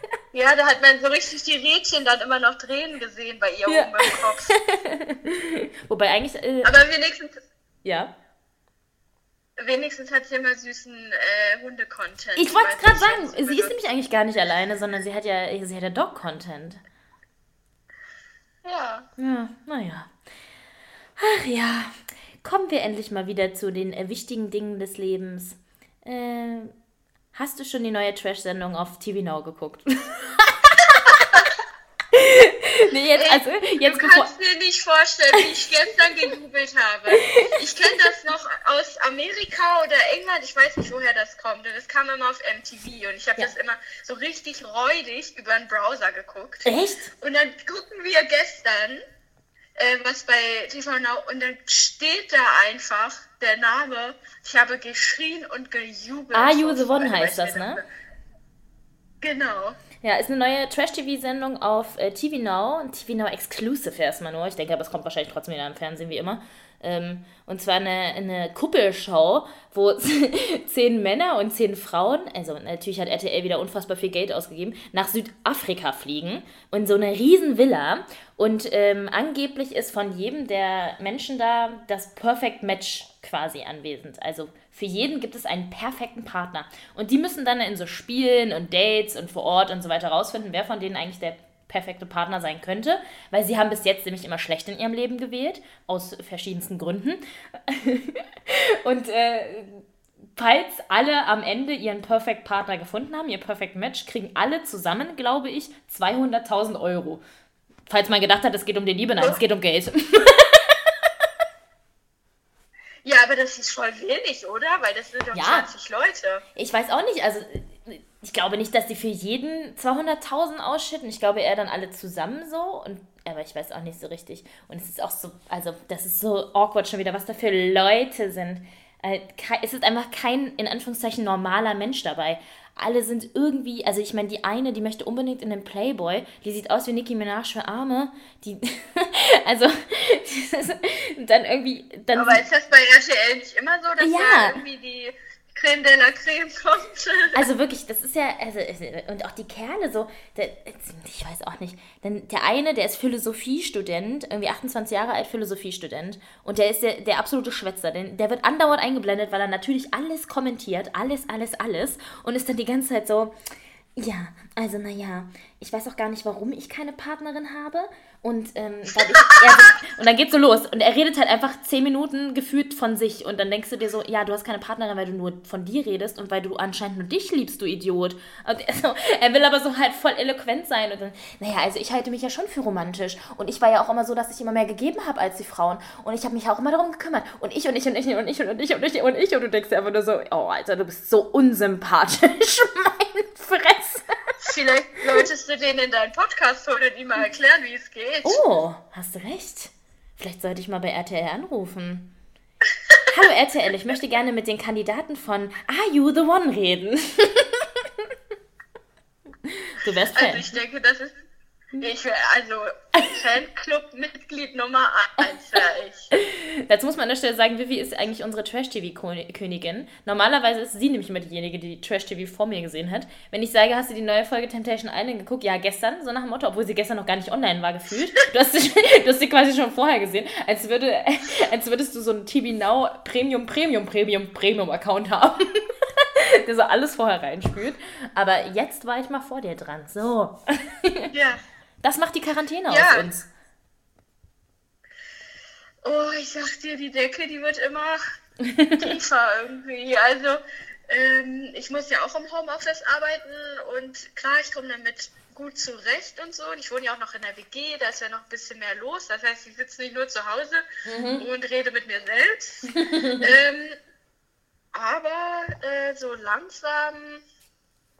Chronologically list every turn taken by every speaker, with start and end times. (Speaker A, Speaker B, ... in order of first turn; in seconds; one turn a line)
Speaker A: 0.3-4.5
Speaker B: 3.7-6.8
Speaker A: 6.6-7.4
Speaker B: 7.8-8.1
Speaker A: 9.6-13.8
Speaker B: 12.4-16.8
Speaker A: 18.6-19.1
Speaker B: 19.2-20.1
Speaker B: 21.2-26.8
Speaker B: 27.3-31.5
Speaker A: 31.1-31.5
Speaker B: 32.1-34.3
Speaker A: 33.1-49.0
Speaker B: 37.2-37.5
Speaker B: 46.6-47.1
Speaker A: 49.8-57.9
Speaker B: 56.3-57.8
Speaker A: 59.2-59.8
Speaker B: 60.0-107.2
Speaker B: 107.9-110.9
Speaker A: 113.0-116.4
Speaker B: 115.3-115.7
Speaker B: 116.6-142.4
Speaker A: 142.1-147.4
Speaker B: 144.0-144.6
Speaker B: 147.3-163.4
Speaker B: 164.0-194.2
Speaker A: 194.4-198.4
Speaker B: 198.2-202.1
Speaker B: 203.1-208.1
Speaker B: 209.4-210.6
Speaker A: 210.2-211.2
Speaker A: 211.8-216.1
Speaker B: 216.1-241.1
Speaker A: 241.1-241.4
Speaker B: 241.8-243.3
Speaker A: 242.7-243.1
Speaker A: 245.8-248.0
Speaker B: 248.4-248.9
Speaker A: 248.8-260.6
Speaker B: 260.9-261.2
Speaker A: 261.2-263.8
Speaker B: 262.8-263.3
Speaker A: 264.7-267.2